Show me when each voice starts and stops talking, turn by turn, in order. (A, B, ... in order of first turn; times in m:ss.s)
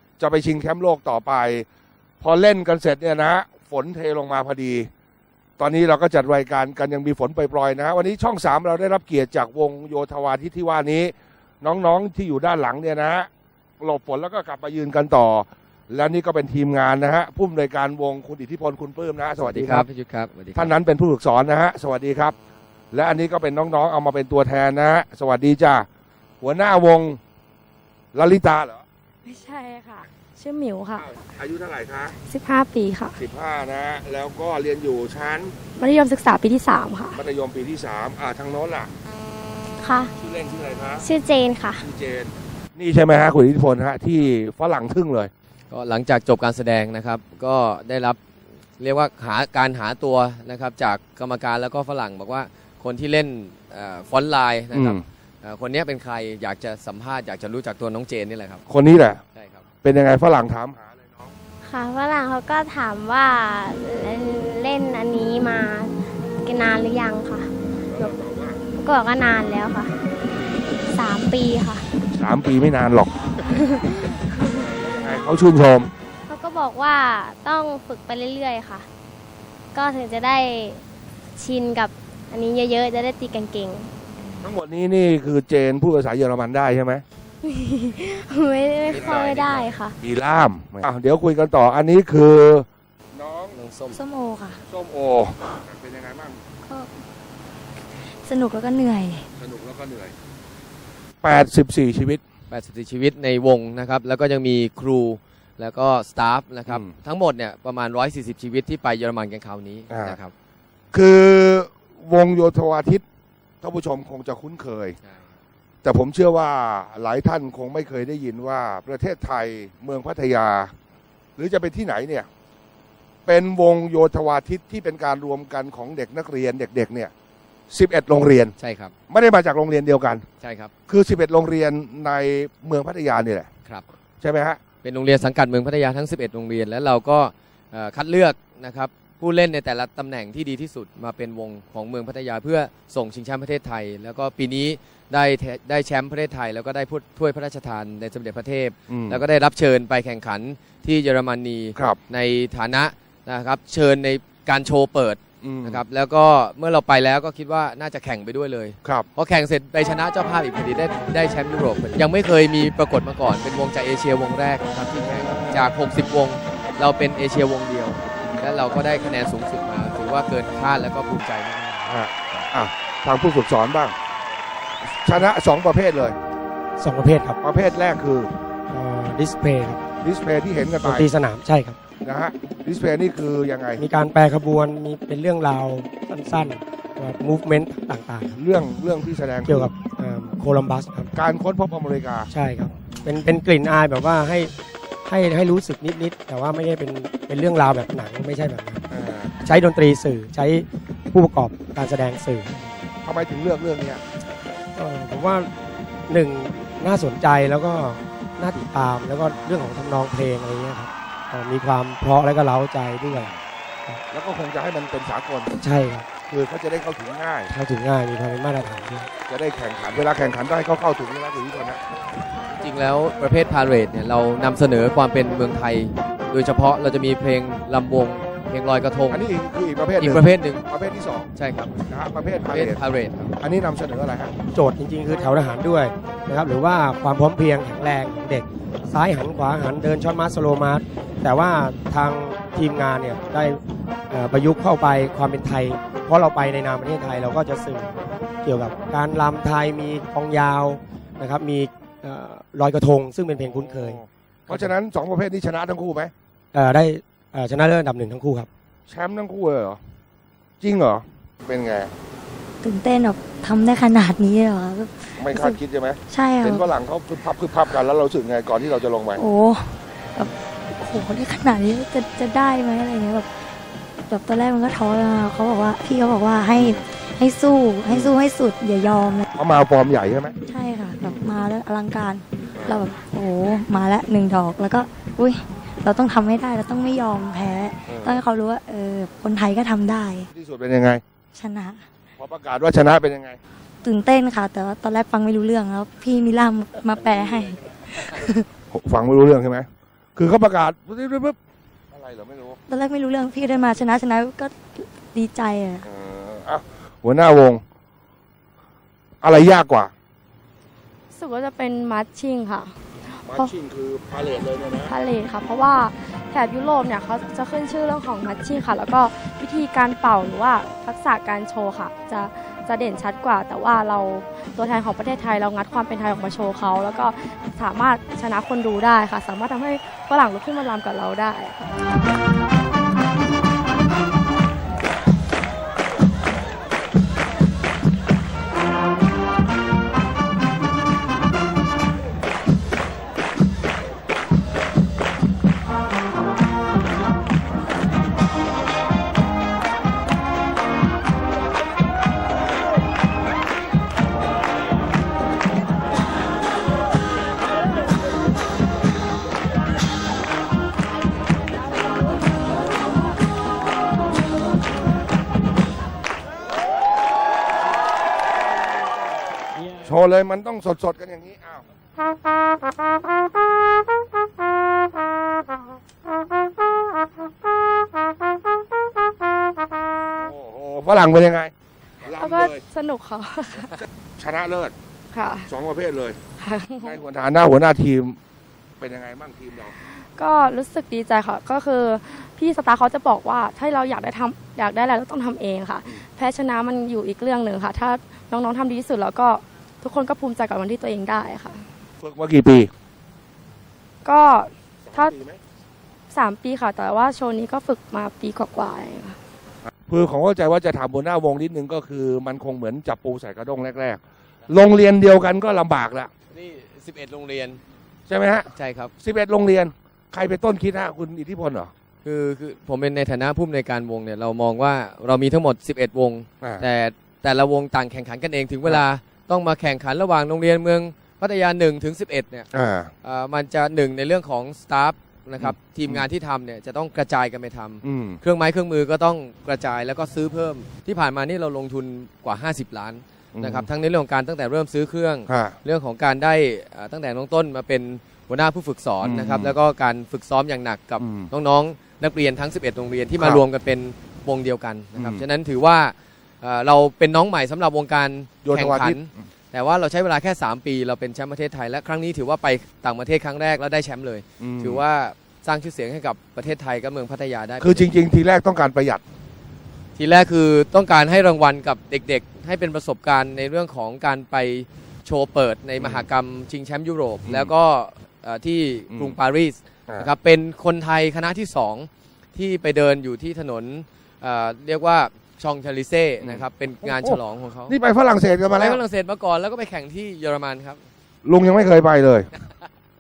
0:00.2-0:01.7 A
0:02.2-0:04.9 A
0:05.6-0:13.3 A
0:13.8-0:19.8 A
0:19.4-0:20.7 B
0:20.6-0:22.4 A
0:22.9-0:25.9 A
0:26.4-0:27.2 A
0:28.1-0:28.8 A
0:29.2-0:31.1 C
0:31.0-0:32.1 A
0:32.2-0:33.2 C
0:33.2-0:35.5 A
0:35.8-0:37.2 C
0:37.1-0:38.9 A
0:39.8-0:40.1 D
0:40.2-0:41.1 A
0:41.0-0:41.9 D
0:41.8-0:45.3 A
0:45.7-0:48.2 B
0:48.8-0:58.6 B
0:54.7-0:55.0 A
0:58.7-0:59.2 A
0:59.4-0:59.6 B
0:59.8-1:01.3 A
1:01.6-1:07.5 D
1:07.9-1:08.6 A
1:08.8-1:09.9 D
1:10.9-1:11.9 D
1:12.1-1:13.4 A
1:13.4-1:14.5 D
1:14.5-1:15.9 A
1:16.3-1:18.9 D
1:19.7-1:20.8 D
1:21.4-1:23.9 D
1:24.4-1:27.0 A
1:27.4-1:29.9 D
1:28.8-1:33.6 A
1:28.9-1:29.4 B
1:33.5-1:34.0 B
1:33.9-1:34.6 E
1:34.7-1:36.4 A
1:36.6-1:37.0 E
1:38.0-1:39.3 E
1:39.4-1:40.1 A
1:41.2-1:42.2 A
1:42.5-1:50.3 B
1:49.9-1:50.2 A
1:50.9-1:53.0 A
1:53.6-1:55.0 A
1:55.0-1:55.3 B
1:55.8-2:00.7 A
2:01.4-2:02.3 A
2:03.3-2:07.1 A
2:07.7-2:08.5 A
2:08.6-2:08.9 B
2:09.1-2:10.3 A
2:10.4-2:10.7 B
2:10.9-2:13.5 A
2:14.2-2:14.6 A
2:14.8-2:52.5 B
2:28.9-2:29.2 A
2:35.4-2:35.8 A
2:51.9-2:54.0 A
2:54.8-2:56.2 A
2:56.8-2:57.4 F
2:57.4-2:58.3 A
2:58.7-2:59.8 F
3:00.0-3:01.1 A
3:00.8-3:01.8 F
3:02.0-3:03.8 A
3:03.8-3:08.4 F
3:08.4-3:09.7 A
3:09.4-3:11.1 F
3:11.1-3:12.3 A
3:12.3-3:14.5 F
3:12.9-3:13.2 A
3:15.1-3:18.8 F
3:18.9-3:19.3 A
3:19.4-3:22.6 F
3:23.0-3:24.0 A
3:24.8-3:25.5 F
3:26.1-3:33.3 F
3:33.1-3:33.4 A
3:34.1-3:35.5 A
3:35.6-3:36.1 F
3:36.2-3:37.5 A
3:37.5-3:39.1 F
3:39.3-3:41.8 A
3:42.5-3:49.2 B
3:49.1-3:52.8 A
3:50.0-3:50.6 B
3:51.4-3:51.7 B
3:52.5-3:53.4 B
3:53.4-3:54.3 A
3:54.5-4:14.7 F
4:13.4-4:16.1 A
4:16.5-4:18.5 F
4:18.9-4:19.8 A
4:20.6-4:21.9 A
4:22.6-4:26.7 E
4:25.2-4:29.2 A
4:29.2-4:33.5 E
4:34.1-4:39.3 E
4:36.6-4:36.8 A
4:37.9-4:38.1 A
4:39.4-4:40.4 A
4:40.5-4:50.3 E
4:41.0-4:41.2 A
4:42.6-4:42.8 A
4:47.9-4:48.2 A
4:50.3-4:51.0 A
4:51.3-4:51.9 E
4:52.2-4:53.4 A
4:53.8-4:58.5 E
4:58.7-5:01.4 A
5:01.9-5:02.6 A
5:02.7-5:05.9 E
5:05.8-5:07.6 A
5:09.2-5:09.9 A
5:11.1-5:12.8 C
5:13.2-5:14.9 A
5:14.9-5:31.6 C
6:09.8-6:11.6 A
6:20.2-6:22.6 A
6:22.0-6:23.8 C
6:23.8-6:24.8 A
6:25.1-6:25.5 C
6:25.5-6:26.2 A
6:26.4-6:27.0 C
6:26.8-6:28.2 A
6:28.8-6:29.7 A
6:30.2-6:41.6 C
6:42.0-6:42.7 A
6:44.0-6:45.2 C
6:44.9-6:45.4 A
6:46.1-6:49.2 C
6:49.9-6:56.1 A
6:56.3-6:57.6 B
6:58.1-7:01.7 A
6:58.5-6:58.9 B
7:02.0-7:12.5 B
7:12.5-7:12.9 A
7:13.0-7:47.9 B
7:15.4-7:16.1 A
7:17.8-7:18.2 A
7:23.3-7:23.7 A
7:25.3-7:25.6 A
7:29.0-7:29.6 A
7:31.0-7:31.3 A
7:33.2-7:33.4 A
7:35.0-7:35.2 A
7:38.4-7:39.0 A
7:44.4-7:44.8 A
7:47.6-7:49.0 A
7:50.0-8:07.8 B
7:55.8-7:56.1 A
7:57.2-7:57.5 A
7:58.9-7:59.2 A
8:06.2-8:08.8 A
8:08.5-8:10.9 B
8:11.2-8:12.3 A